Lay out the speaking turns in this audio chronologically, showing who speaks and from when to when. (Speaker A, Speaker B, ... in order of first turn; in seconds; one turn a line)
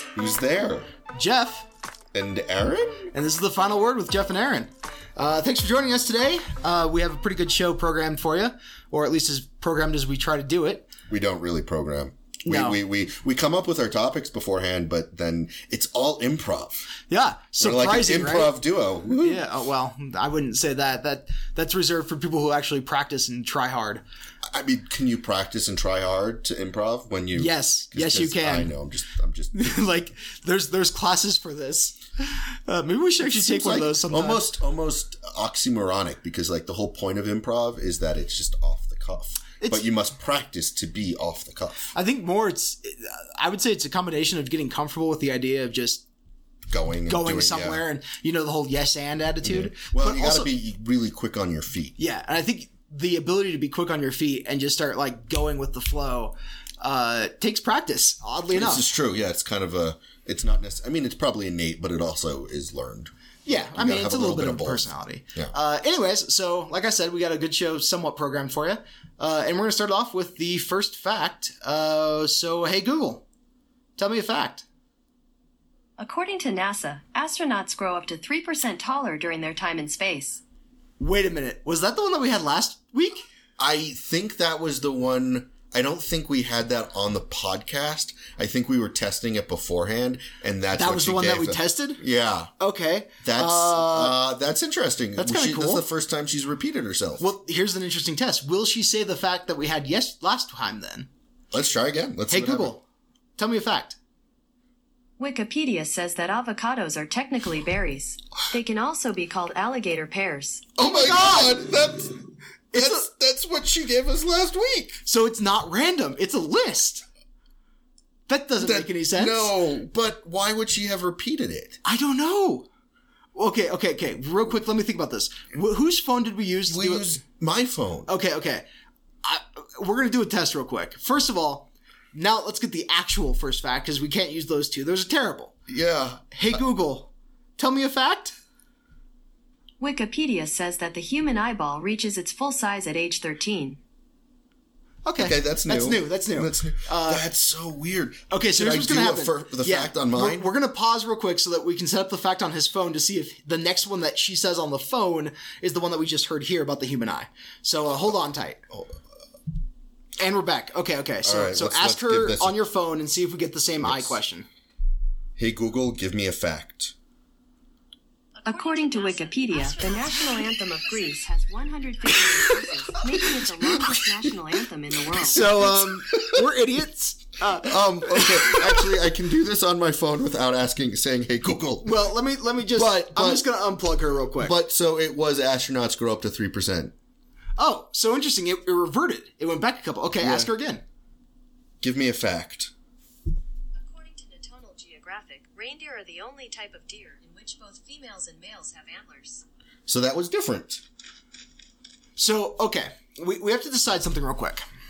Speaker A: 0.1-0.9
Speaker B: 1.1-1.7
Speaker A: 2.1-3.1
Speaker B: 3.1-10.9
Speaker A: 11.1-16.9
Speaker B: 12.4-12.8
Speaker B: 17.1-18.6
Speaker A: 17.6-19.4
Speaker B: 19.2-24.0
Speaker A: 24.5-29.9
Speaker B: 27.3-28.7
Speaker B: 29.5-34.5
Speaker A: 33.2-41.9
Speaker B: 41.9-46.0
Speaker A: 46.7-47.8
Speaker B: 47.1-50.5
Speaker A: 49.4-51.9
Speaker B: 52.0-58.9
Speaker A: 58.5-65.5
Speaker B: 63.5-73.2
Speaker B: 74.0-74.7
Speaker C: 76.0-80.4
Speaker B: 81.0-83.2
Speaker A: 83.6-92.5
Speaker B: 90.7-92.0
Speaker B: 92.6-94.2
Speaker A: 93.2-97.2
Speaker B: 95.2-95.8
Speaker B: 97.2-101.1
Speaker A: 101.5-102.7
Speaker B: 102.3-102.8
Speaker B: 103.4-104.0
Speaker C: 105.2-110.7
Speaker A: 110.8-112.2
Speaker B: 110.8-111.6
Speaker A: 112.7-115.0
Speaker B: 112.7-113.1
Speaker B: 115.0-117.0
Speaker B: 118.3-119.5
Speaker A: 118.6-121.8
Speaker B: 121.8-122.7
Speaker B: 123.3-127.1
Speaker A: 126.7-128.1
Speaker B: 128.1-128.7
Speaker B: 129.2-135.5
Speaker A: 135.7-136.6
Speaker B: 136.3-138.3
Speaker C: 139.8-143.8
Speaker B: 145.0-147.2
Speaker A: 145.2-150.5
Speaker B: 148.3-158.6
Speaker B: 160.2-164.5
Speaker A: 161.2-162.5
Speaker A: 163.8-164.2
Speaker A: 165.4-166.9
Speaker C: 168.4-175.5
Speaker B: 172.2-173.8
Speaker B: 175.1-178.9
Speaker A: 175.4-176.4
Speaker A: 177.6-182.1
Speaker B: 181.8-184.5
Speaker A: 182.7-183.4
Speaker A: 184.4-186.9
Speaker B: 187.6-190.8
Speaker A: 190.2-190.5
Speaker A: 191.8-192.7
Speaker C: 193.8-199.4
Speaker A: 199.9-200.8
Speaker B: 202.2-204.7